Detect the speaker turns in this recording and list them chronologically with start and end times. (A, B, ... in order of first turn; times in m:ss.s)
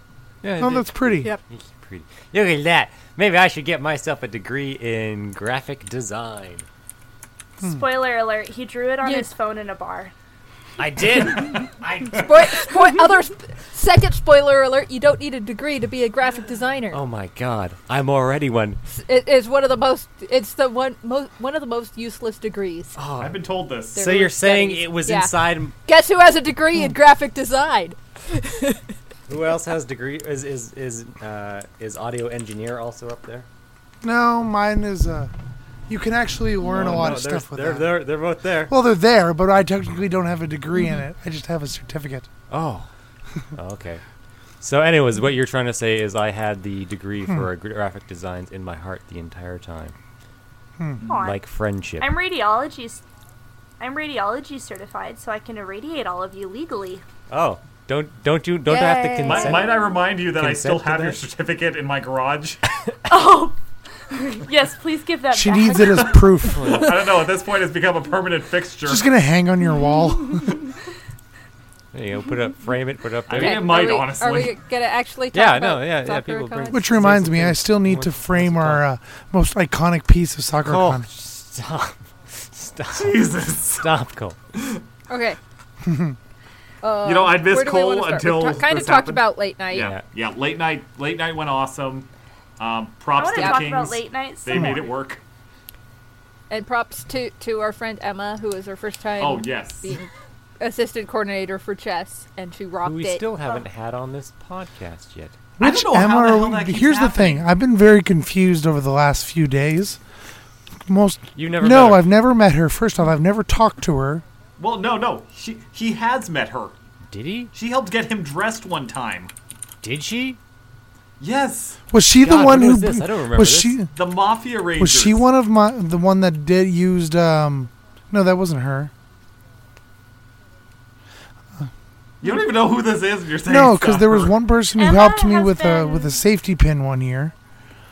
0:00.4-0:06.7 A
0:00.6-0:01.3 B
0:07.6-0:10.1 C
0:10.8-0:12.6 A
0:12.1-0:17.0 D
0:16.9-0:18.8 A
0:18.9-0:23.0 D
0:23.0-0:23.4 A
0:23.2-0:24.1 E
0:23.9-0:25.7 A
0:24.0-0:28.9 D
0:29.3-0:33.5 A
0:34.0-0:35.3 B
0:35.9-0:38.0 B
0:36.6-0:38.7 A
0:38.7-0:42.3 B
0:42.5-0:42.9 A
0:43.6-0:44.0 A
0:44.6-0:50.0 A
0:51.0-0:51.3 E
0:51.1-0:51.4 C
0:51.2-0:52.1 A
0:52.0-0:53.0 C
0:53.8-0:57.0 C
0:57.3-1:01.2 A
0:58.7-0:59.8 D
0:59.2-1:02.6 E
1:03.1-1:06.3 C
1:05.3-1:06.8 B
1:05.8-1:09.1 E
1:06.4-1:07.1 A
1:08.9-1:10.6 B
1:11.9-1:14.0 A
1:13.3-1:14.6 E
1:13.3-1:16.8 D
1:15.3-1:18.8 A
1:16.7-1:21.1 B
1:20.6-1:24.4 A
1:22.9-1:23.9 E
1:24.6-1:24.8 E
1:25.1-1:25.4 D
1:25.8-1:26.2 B
1:26.8-1:29.9 D
1:27.0-1:32.1 E
1:29.7-1:30.0 A
1:32.6-1:35.2 E
1:33.1-1:34.8 C
1:33.3-1:33.7 D
1:36.5-1:43.2 D
1:39.2-1:39.9 E
1:42.8-1:45.4 A
1:45.6-1:50.0 B
1:45.6-1:47.5 E
1:50.9-1:54.2 B
1:51.4-1:52.1 A
1:54.6-1:56.8 E
1:57.1-1:57.5 A
1:57.5-1:59.3 E
1:59.8-2:00.4 A
2:01.2-2:01.8 E
2:01.9-2:03.9 B
2:02.2-2:03.8 A
2:03.9-2:05.2 E
2:04.8-2:08.9 B
2:12.2-2:14.3 E
2:13.5-2:17.3 B
2:14.8-2:16.2 C